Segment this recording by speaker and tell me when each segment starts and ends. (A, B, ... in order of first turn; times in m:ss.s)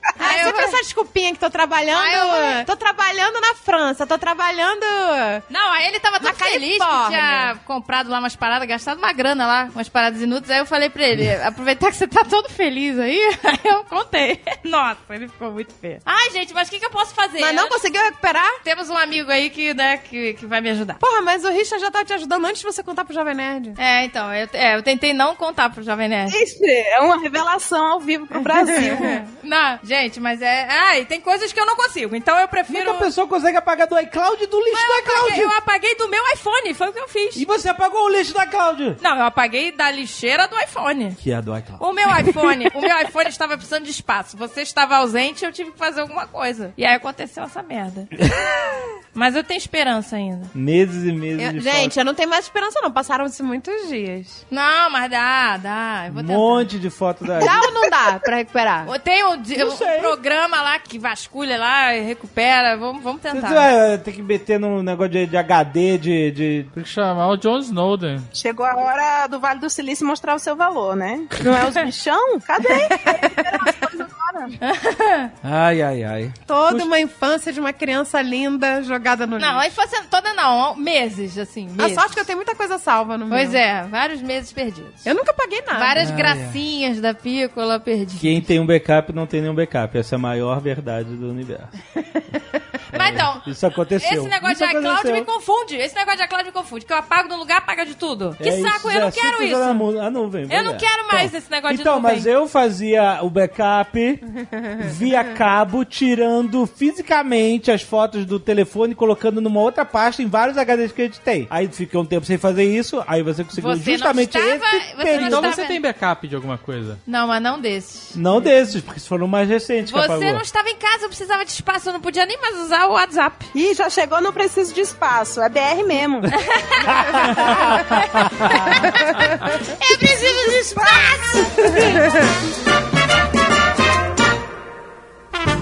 0:00.2-0:00.8 A
0:00.2-0:05.4 B
0:01.9-0:02.6 A
0:05.5-0:17.8 A
0:06.2-0:07.5 B
0:17.4-0:18.6 B
0:18.6-0:21.0 A
0:21.0-0:23.8 B
0:23.8-0:26.4 A
0:26.3-0:29.2 C
0:28.6-0:29.2 B
0:28.7-0:33.1 A
0:32.7-0:35.5 D
0:34.7-0:37.4 A
0:37.3-0:39.0 D
0:39.0-0:41.2 A
0:41.2-0:41.8 D
0:41.8-0:48.1 A
0:49.1-0:50.5 A
0:50.5-0:51.9 D
0:51.4-0:54.4 B
0:54.5-0:56.7 A
0:56.1-0:57.7 D
0:57.4-0:58.9 B
0:58.8-1:03.7 A
0:59.6-1:00.2 D
1:03.3-1:06.7 D
1:06.7-1:08.3 E
1:08.3-1:14.6 C
1:13.0-1:13.7 B
1:14.6-1:15.3 A
1:15.4-1:16.9 D
1:16.5-1:19.6 B
1:19.4-1:22.2 A
1:21.8-1:23.6 B
1:23.3-1:25.1 A
1:25.0-1:26.0 B
1:25.7-1:28.4 A
1:26.0-1:26.6 D
1:28.2-1:31.7 D
1:32.9-1:33.5 A
1:32.9-1:35.3 D
1:34.0-1:39.9 A
1:38.4-1:55.6 D
1:40.5-1:42.3 A
1:53.6-1:55.8 A
1:55.1-1:57.0 E
1:57.0-1:58.2 A
1:58.1-2:00.4 D
1:59.9-2:03.5 A
2:03.5-2:06.3 C
2:06.4-2:06.9 A
2:07.1-2:07.5 D
2:09.6-2:11.9 A
2:10.0-2:10.8 C